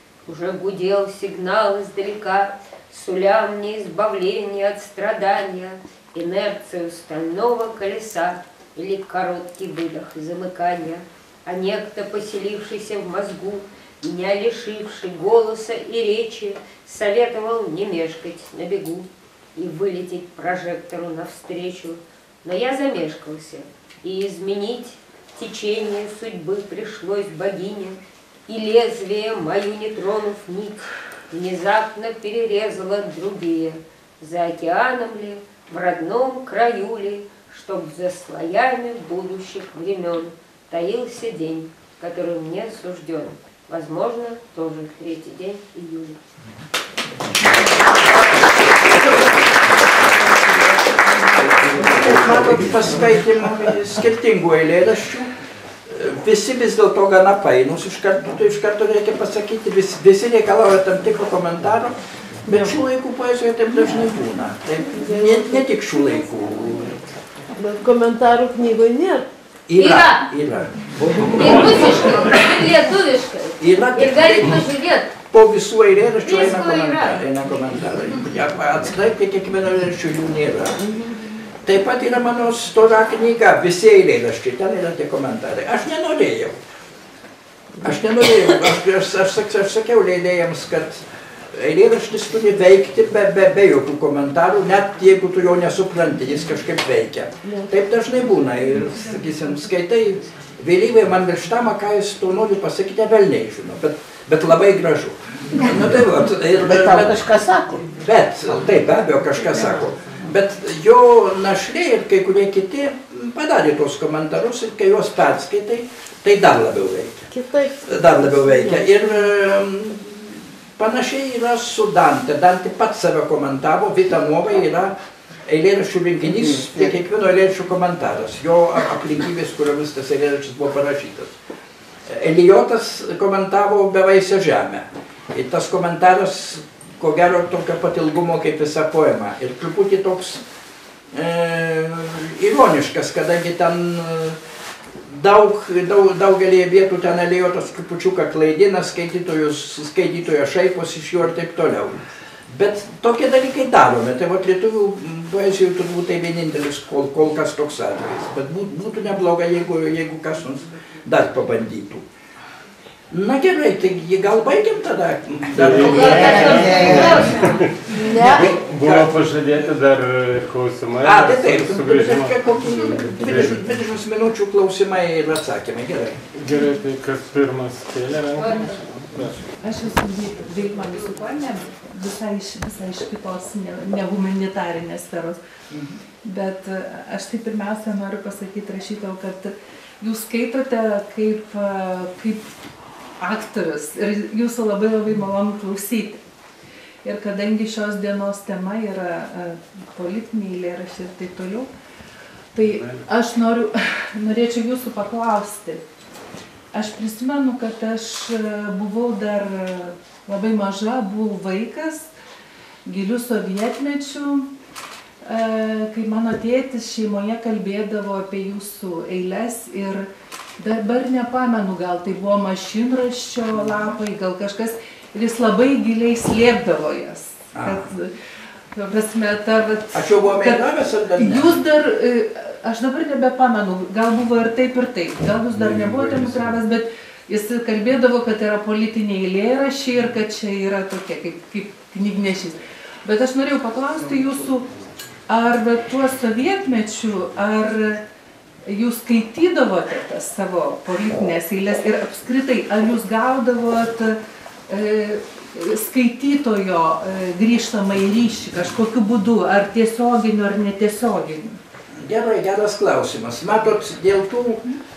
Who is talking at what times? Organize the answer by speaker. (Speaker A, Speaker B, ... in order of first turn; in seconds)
Speaker A: 0.3-46.2, 69.8-70.3, 71.3-75.1, 76.2-77.2, 165.8-167.6, 178.4-178.8
Speaker B: 49.0-49.3, 51.6-55.3, 55.9-67.0, 69.7-72.4, 73.6-74.6, 75.3-80.9, 81.6-86.6, 87.8-107.3, 107.9-117.3, 117.8-131.3, 132.1-140.4, 141.1-144.4, 145.1-162.1, 163.1-167.5, 168.2-169.2, 171.0-176.2, 227.6-227.9, 229.9-231.5, 262.0-264.7
Speaker C: 64.9-66.0, 67.5-69.3, 117.3-118.8, 167.9-168.5
Speaker D: 106.7-107.8, 126.4-126.9, 166.5-167.0
Speaker E: 165.5-173.6, 176.4-179.4
Speaker F: 179.6-185.4, 186.2-192.5, 193.2-196.2, 197.0-201.7, 202.5-205.8, 206.7-212.1, 212.9-214.5, 215.2-220.1, 220.6-228.1, 228.7-244.7, 245.3-248.0, 248.7-261.6